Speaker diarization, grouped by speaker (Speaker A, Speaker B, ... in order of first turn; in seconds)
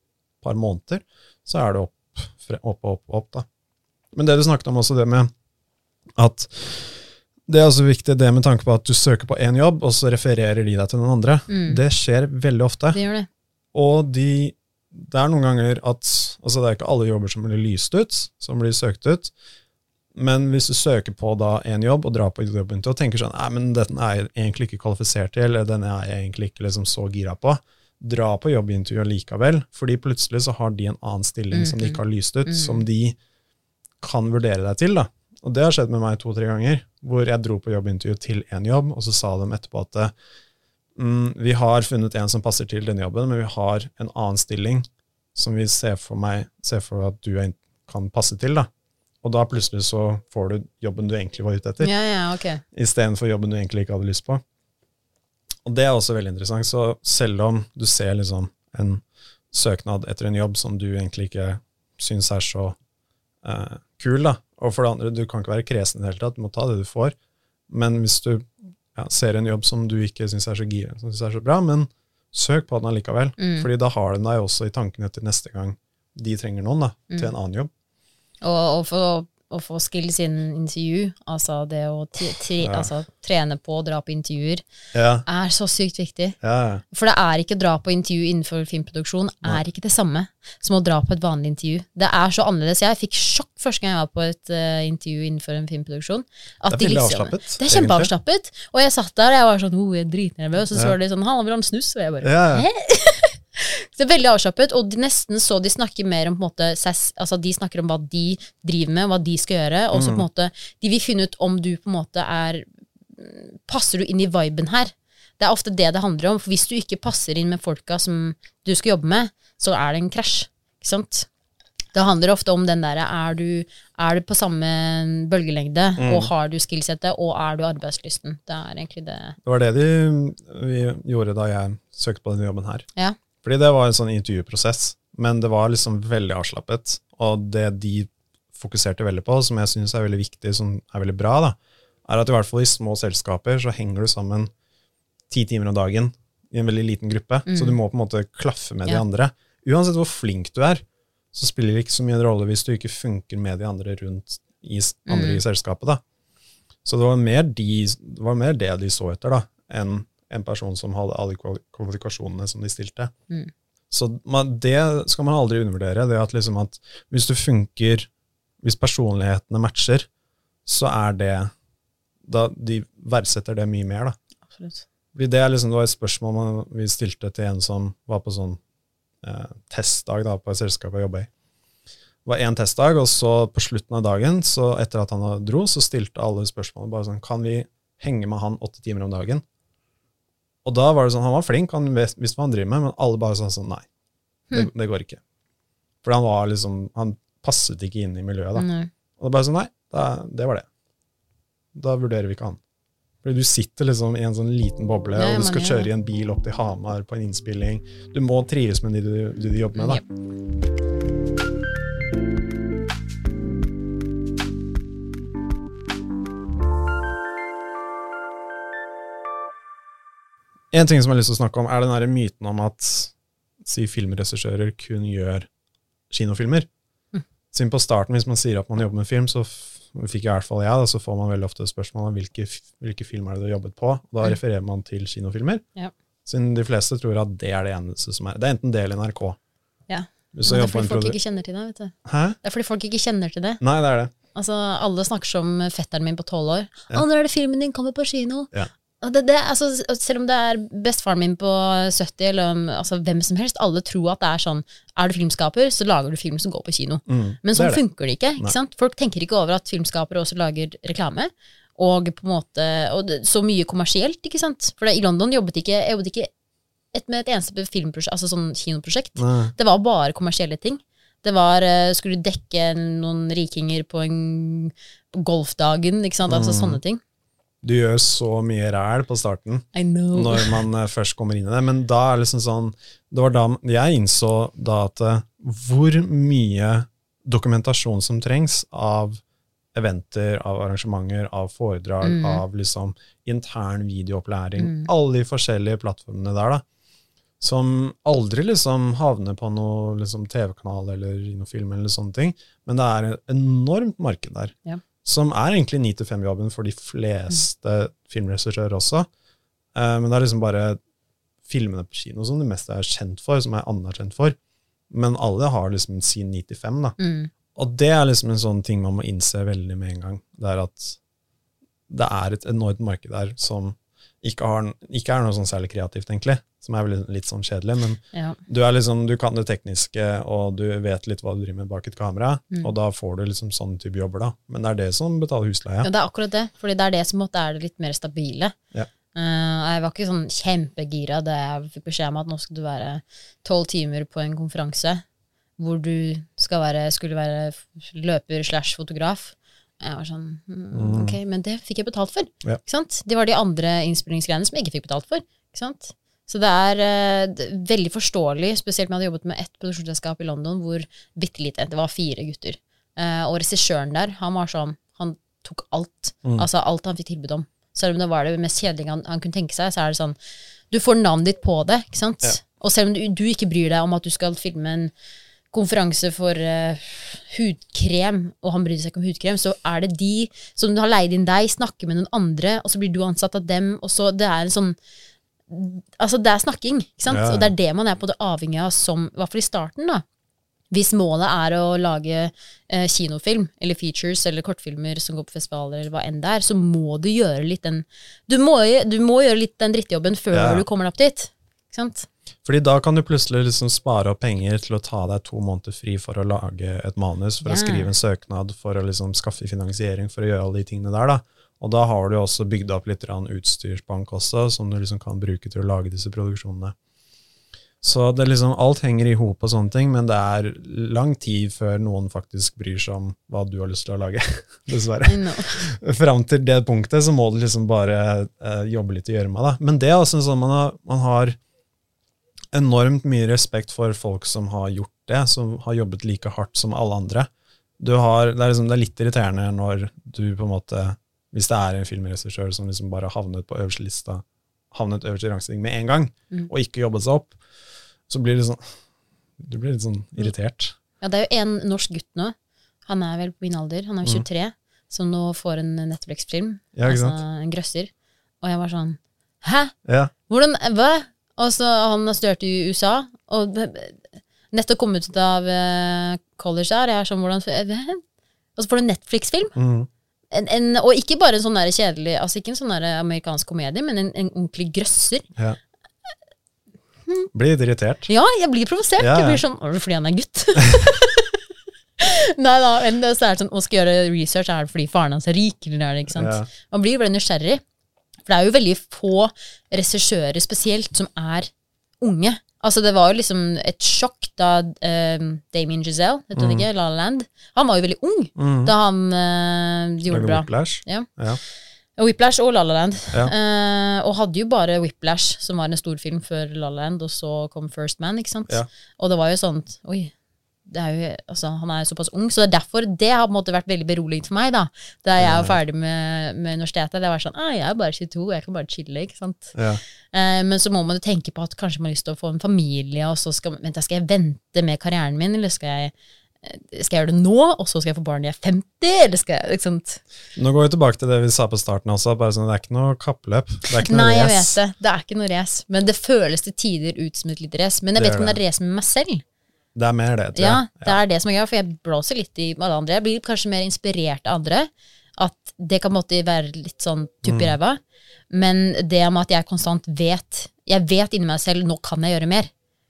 Speaker A: 0.4-3.5, 4.1-5.3, 6.2-13.0, 13.7-19.3, 20.1-33.2, 34.0-40.1, 41.0-48.7, 49.2-51.9, 52.7-54.4, 55.6-62.8, 63.4-67.2, 67.7-77.7, 82.6-82.9, 84.9-85.3, 86.4-86.8, 96.7-98.1, 102.2-102.7, 109.9-110.2, 126.0-126.3, 129.4-132.9, 133.4-144.5, 145.3-156.0, 156.8-163.1, 163.9-168.1, 168.6-170.1, 170.7-171.5, 172.3-174.2, 175.2-178.6, 179.2-181.3, 182.2-189.4, 190.7-193.8, 194.5-195.2, 196.0-198.7, 199.2-200.7, 201.8-202.6, 203.2-210.0, 220.7-223.1, 223.7-225.5, 226.1-226.7, 227.5-235.6, 236.3-239.4, 240.3-241.2, 242.1-242.4, 243.6-244.1, 257.1-257.8, 269.2-269.5, 276.3-276.8, 277.6-289.2, 289.7-296.6, 297.4-309.1, 309.8-310.8, 311.4-314.4, 314.9-317.0, 317.6-321.0, 321.9-335.9, 350.7-351.2, 387.1-387.5, 400.3-400.6, 402.4-416.8, 417.8-431.4, 432.5-437.3, 437.8-447.4, 448.1-448.8, 449.4-450.8, 456.8-457.2, 459.9-460.1, 469.6-469.9, 477.3-478.1, 479.0-479.4, 486.1-486.5, 496.4-496.7, 498.4-498.7, 500.1-501.4, 515.2-515.6, 519.5-519.8, 530.4-534.6, 538.0-538.4, 539.8-541.0, 547.2-547.5
Speaker B: 11.5-11.8, 12.9-13.3, 31.5-32.8, 51.8-52.6, 73.4-73.7, 78.4-84.6, 85.3-86.4, 86.9-121.3, 121.9-129.4, 147.5-147.8, 155.1-155.4, 174.5-174.8, 198.6-198.9, 205.2-205.9, 209.8-210.0, 239.9-243.6, 244.3-266.3, 266.9-277.0, 279.8-280.6, 292.0-292.4, 294.6-294.9, 317.0-317.3, 328.1-328.4, 335.8-338.6, 339.1-345.0, 345.6-370.2, 370.7-374.9, 375.5-384.8, 385.5-390.0, 390.7-402.1, 407.4-407.9, 425.1-425.7, 451.0-452.4, 452.9-457.9, 458.4-459.7, 460.3-468.0, 468.6-469.6, 470.3-475.3, 478.1-481.4, 482.0-487.6, 488.2-491.5, 492.0-501.1, 502.0-510.1, 510.7-519.5, 520.1-530.0, 533.8-539.2, 540.4-552.5